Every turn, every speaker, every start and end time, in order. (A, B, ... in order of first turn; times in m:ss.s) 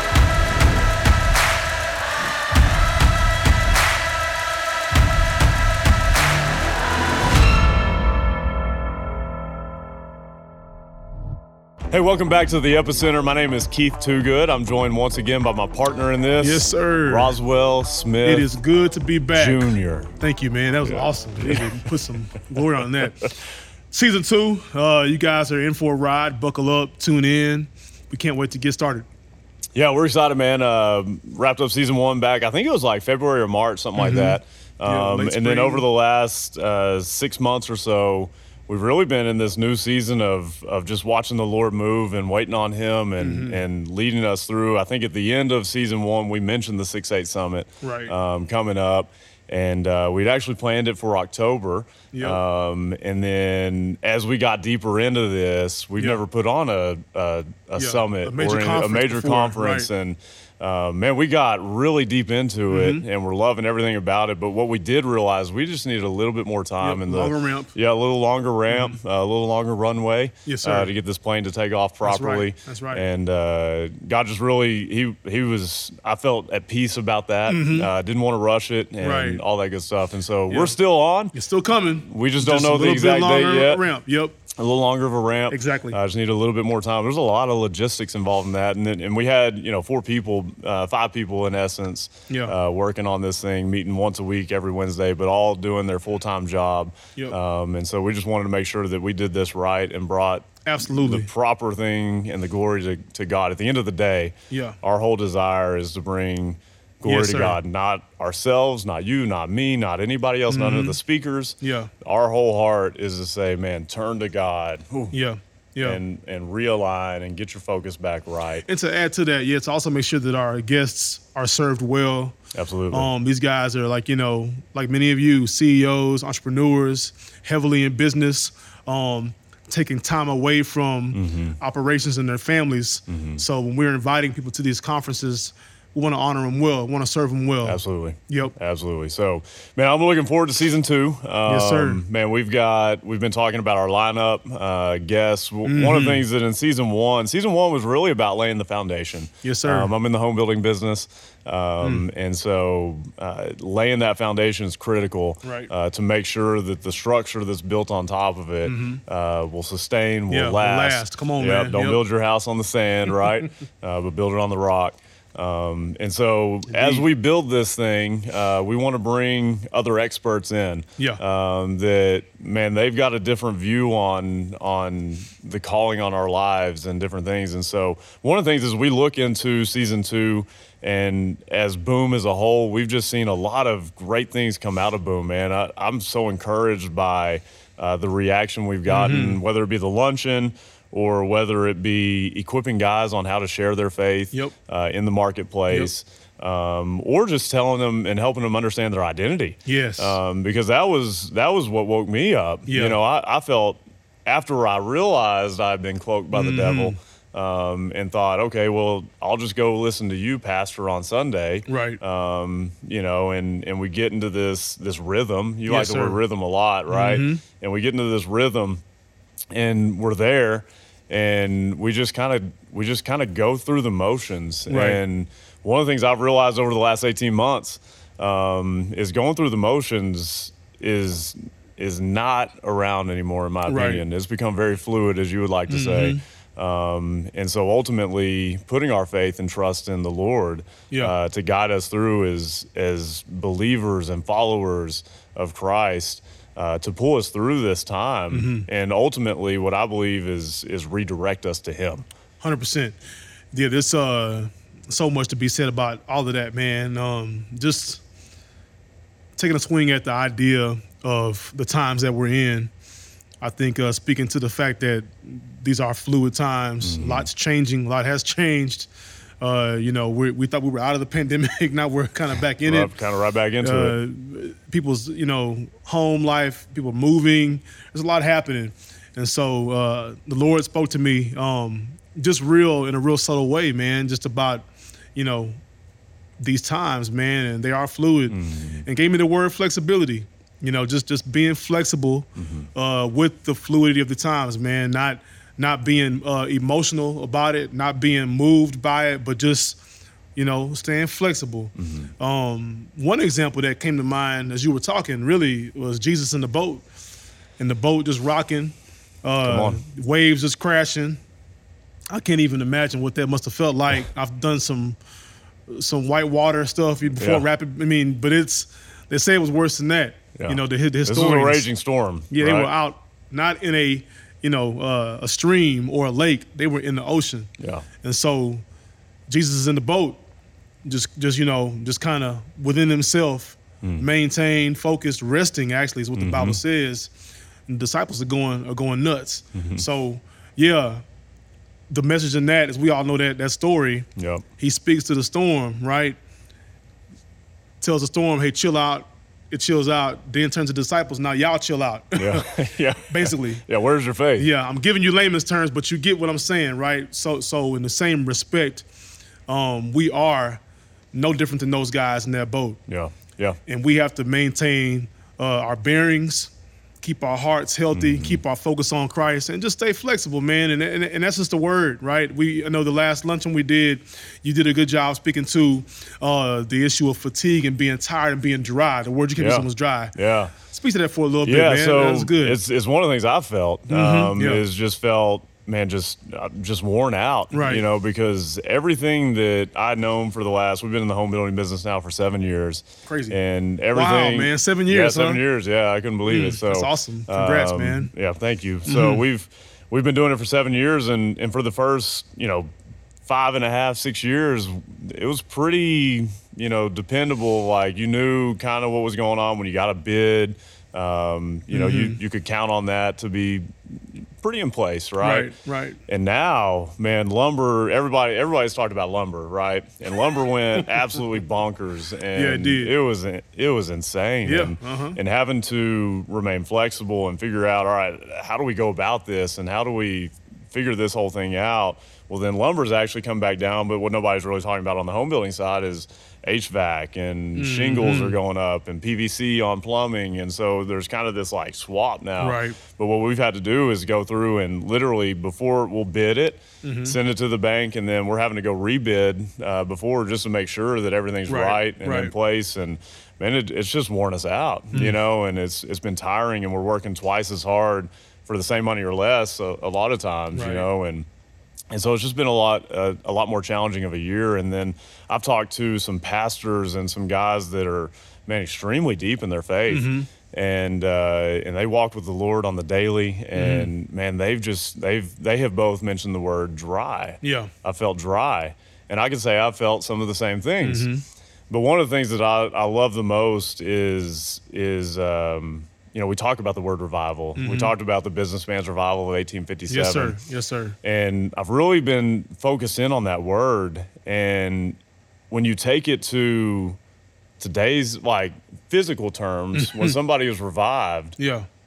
0:11.9-0:18.5 A
0:16.4-0:17.4 B
0:18.2-0:23.3 B
0:19.3-0:20.1 A
0:20.8-0:21.8 A
0:23.9-0:29.1 B
0:29.7-1:21.4 A
0:34.0-0:35.8 B
0:43.2-0:43.6 B
0:47.8-0:48.1 B
0:52.1-0:52.4 B
0:57.8-0:59.9 B
1:02.7-1:03.0 B
1:06.8-1:07.7 B
1:08.7-1:09.0 B
1:10.4-1:10.9 B
1:12.0-1:13.0 B
1:17.5-1:17.9 B
1:19.0-1:19.4 B
1:20.5-1:20.8 B
1:21.3-1:24.4 B
1:22.0-1:23.8 A
1:24.5-1:55.2 A
1:25.5-1:26.0 B
1:32.3-1:32.5 B
1:40.6-1:41.3 B
1:44.5-1:44.8 B
1:47.0-1:47.6 B
1:50.5-1:51.0 B
1:51.6-1:51.9 B
1:55.1-1:56.0 B
1:55.8-1:58.6 A
1:58.6-2:02.4 B
2:02.5-2:03.1 A
2:02.9-2:18.5 B
2:11.1-2:11.6 A
2:13.1-2:13.4 A
2:17.6-3:38.8 A
2:21.4-2:22.0 B
2:25.6-2:26.2 B
2:29.4-2:29.9 B
2:35.4-2:35.7 B
2:38.6-2:39.0 B
2:40.3-2:42.0 B
2:46.7-2:47.0 B
3:08.9-3:09.4 B
3:19.6-3:20.2 B
3:22.7-3:23.0 B
3:26.3-3:27.0 B
3:31.7-3:32.0 B
3:35.7-3:36.2 B
3:36.9-3:37.4 B
3:39.5-4:12.0 A
3:44.7-3:45.0 B
3:53.7-3:54.0 B
3:55.7-3:56.2 B
4:08.3-4:08.7 B
4:12.4-4:13.0 B
4:13.5-4:18.0 B
4:19.4-4:22.7 B
4:23.4-4:28.9 B
4:26.8-4:27.3 A
4:29.4-4:32.9 B
4:32.6-4:34.0 A
4:33.6-4:45.6 B
4:46.4-4:59.8 B
4:48.3-4:48.8 A
4:52.4-4:52.7 A
5:00.3-5:06.8 B
5:01.8-5:02.1 A
5:07.6-5:11.2 B
5:09.4-5:09.8 A
5:12.1-5:15.0 B
5:15.7-5:21.7 B
5:17.2-5:17.4 A
5:20.4-5:22.7 A
5:22.3-5:27.5 B
5:27.6-5:27.8 A
5:28.0-5:28.6 B
5:29.3-5:30.2 B
5:30.8-5:37.1 B
5:36.2-5:36.6 A
5:37.7-5:41.0 B
5:39.5-5:39.8 A
5:41.9-5:44.1 B
5:44.2-5:44.4 A
5:44.6-5:46.2 B
5:47.8-5:52.5 B
5:52.2-5:54.5 A
5:53.1-5:53.6 B
5:54.4-5:58.8 B
5:59.5-6:00.6 B
6:01.1-6:02.8 B
6:02.9-6:03.6 A
6:03.7-6:22.6 B
6:07.9-6:08.4 A
6:19.4-6:20.5 A
6:21.4-6:42.7 A
6:23.9-6:24.6 B
6:27.5-6:27.8 B
6:33.0-6:33.4 B
6:33.9-6:35.4 B
6:36.3-6:38.1 B
6:38.9-6:39.2 B
6:43.3-6:55.5 A
6:51.7-6:52.2 B
6:55.2-6:56.0 B
6:56.1-7:41.2 A
7:02.3-7:02.9 B
7:04.4-7:05.2 B
7:17.6-7:18.4 B
7:22.4-7:22.8 B
7:26.8-7:27.2 B
7:31.5-7:32.3 B
7:40.5-7:40.9 B
7:41.9-8:01.1 A
7:49.9-7:50.3 B
7:53.5-7:53.9 B
7:57.4-7:57.7 B
8:00.8-8:01.2 B
8:01.7-8:10.4 A
8:07.6-8:07.9 B
8:09.9-8:11.0 B
8:11.0-8:15.0 A
8:15.5-8:17.0 A
8:17.6-8:21.4 A
8:19.7-8:20.2 B
8:21.4-8:21.7 B